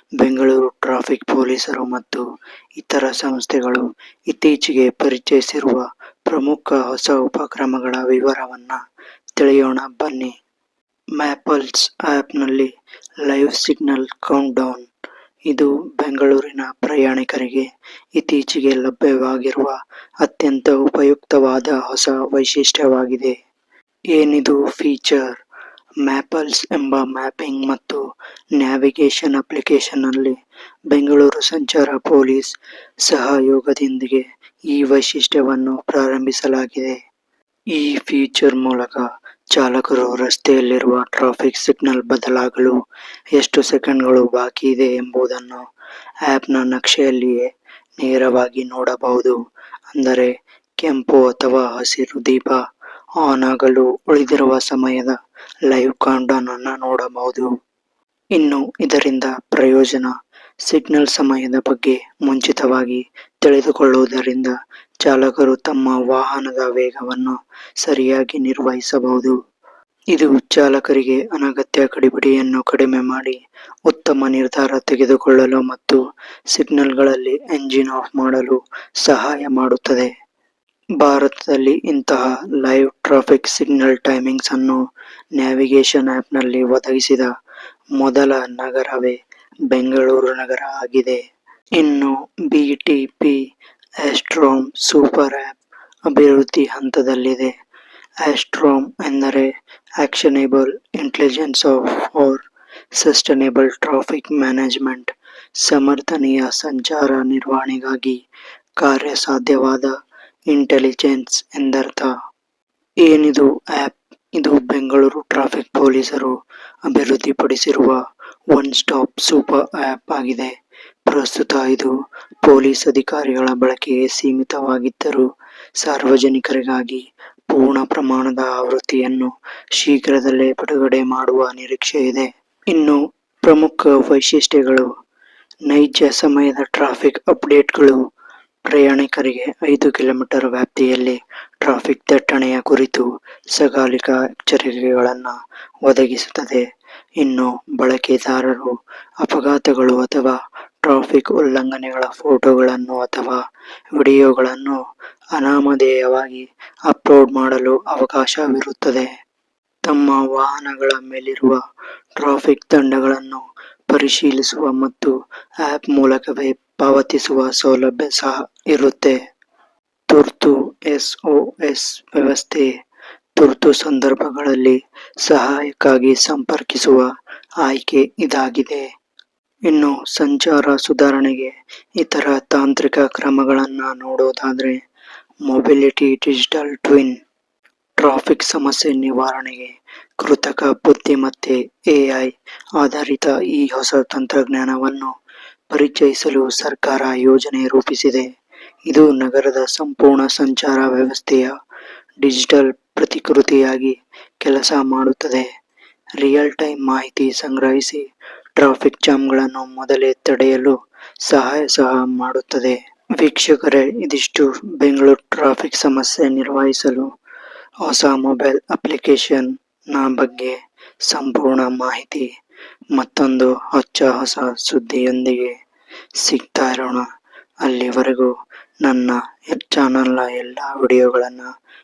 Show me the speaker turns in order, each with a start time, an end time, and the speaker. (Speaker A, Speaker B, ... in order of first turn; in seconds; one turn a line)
Speaker A: 0.2-2.2
Speaker A: 2.8-8.8
Speaker A: 9.4-10.3
Speaker A: 11.2-12.7
Speaker A: 13.2-14.8
Speaker A: 15.5-17.6
Speaker A: 18.2-23.3
Speaker A: 24.1-25.2
Speaker A: 26.0-28.0
Speaker A: 28.6-30.3
Speaker A: 30.9-32.5
Speaker A: 33.1-37.0
Speaker A: 37.7-42.8
Speaker A: 43.4-45.6
Speaker A: 46.3-49.3
Speaker A: 49.9-52.6
Speaker A: 53.2-55.1
Speaker A: 55.7-57.5
Speaker A: 58.3-60.1
Speaker A: 60.6-69.3
Speaker A: 70.1-76.0
Speaker A: 76.5-80.1
Speaker A: 81.0-84.8
Speaker A: 85.4-87.3
Speaker A: 88.0-89.2
Speaker A: 89.7-91.2
Speaker A: 91.8-93.4
Speaker A: 94.0-95.5
Speaker A: 96.1-97.5
Speaker A: 98.2-102.4
Speaker A: 103.0-108.2
Speaker A: 108.8-109.9
Speaker A: 110.5-112.1
Speaker A: 113.0-116.3
Speaker A: 116.9-118.0
Speaker A: 118.5-120.5
Speaker A: 121.1-125.2
Speaker A: 125.8-134.9
Speaker A: 135.7-138.0
Speaker A: 138.7-145.3
Speaker A: 145.8-146.6
Speaker A: 147.2-148.7
Speaker A: 149.2-153.4
Speaker A: 153.9-154.8
Speaker A: 155.3-159.1
Speaker A: 159.9-161.6
Speaker A: 162.2-165.1
Speaker A: 165.6-169.2
Speaker A: 170.1-172.7
Speaker A: 173.4-177.1
Speaker A: 177.6-178.8
Speaker A: 179.7-184.8
Speaker A: 185.5-187.1
Speaker A: 188.0-195.1
Speaker A: 195.7-198.2
Speaker A: 198.9-201.5
Speaker A: 202.2-205.4
Speaker A: 206.2-208.0
Speaker A: 208.6-210.7
Speaker A: 211.3-217.1
Speaker A: 217.8-220.6
Speaker A: 221.1-222.3
Speaker A: 222.9-225.5
Speaker A: 226.2-227.0
Speaker A: 227.6-228.3
Speaker A: 228.8-231.5